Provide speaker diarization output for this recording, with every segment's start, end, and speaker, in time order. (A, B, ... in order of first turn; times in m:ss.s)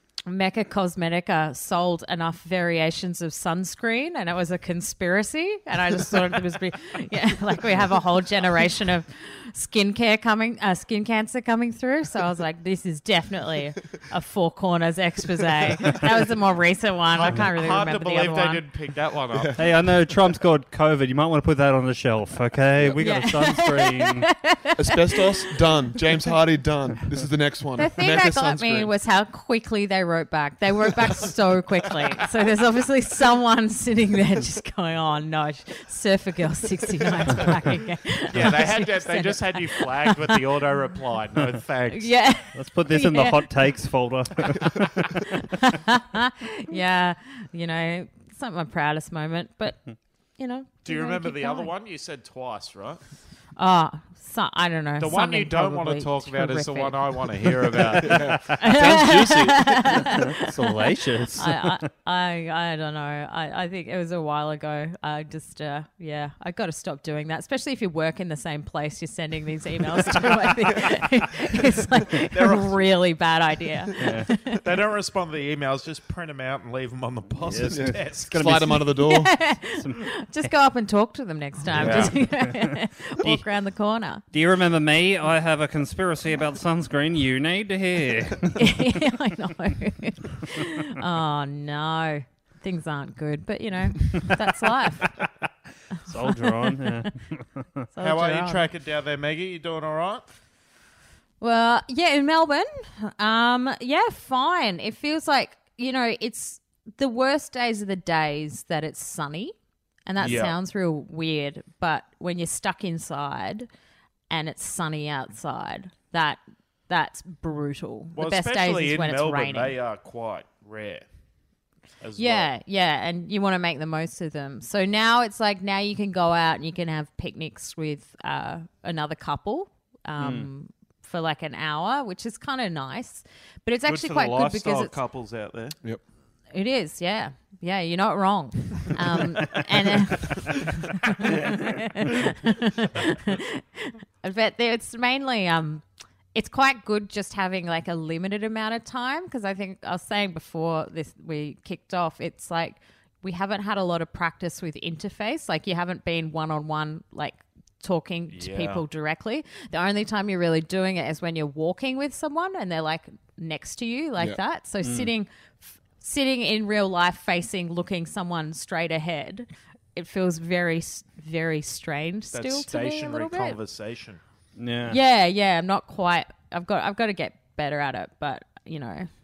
0:00.3-0:18.6 A
0:17.1-0:19.6 B
0:19.3-0:19.6 C
0:19.6-0:24.3 D
0:23.0-0:25.3 A
0:24.8-0:28.9 C
0:27.8-0:40.4 A
0:38.3-0:42.1 B
0:41.9-0:43.5 A
0:42.5-0:45.3 D
0:45.2-0:49.8 A
0:50.4-0:51.7 A
0:50.8-0:53.0 B
0:53.6-0:57.3 A
0:55.0-0:58.3 B
0:57.8-0:59.7 C
0:58.6-1:01.8 D
0:58.6-1:14.6 A
1:14.0-1:14.3 D
1:14.6-1:18.4 B
1:17.5-1:19.0 D
1:17.7-1:19.3 C
1:19.0-1:24.2 A
1:19.7-1:20.2 D
1:21.7-1:22.7 D
1:21.8-1:22.1 B
1:21.8-1:22.1 C
1:24.3-1:28.8 D
1:28.6-1:35.1 A
1:36.0-1:37.7 D
1:37.9-1:38.7 A
1:38.0-1:40.2 B
1:41.4-1:49.6 A
1:50.1-1:53.7 A
1:50.2-1:50.6 B
1:54.3-1:59.8 A
1:58.2-2:01.0 B
2:02.0-2:02.5 B
2:02.2-2:14.9 A
2:10.2-2:10.5 D
2:13.9-2:15.8 B
2:16.5-2:25.8 A
2:26.3-2:53.6 A
2:38.3-2:38.8 B
2:44.8-2:45.1 D
2:52.3-2:54.2 B
2:54.6-2:55.0 D
2:54.9-2:59.1 A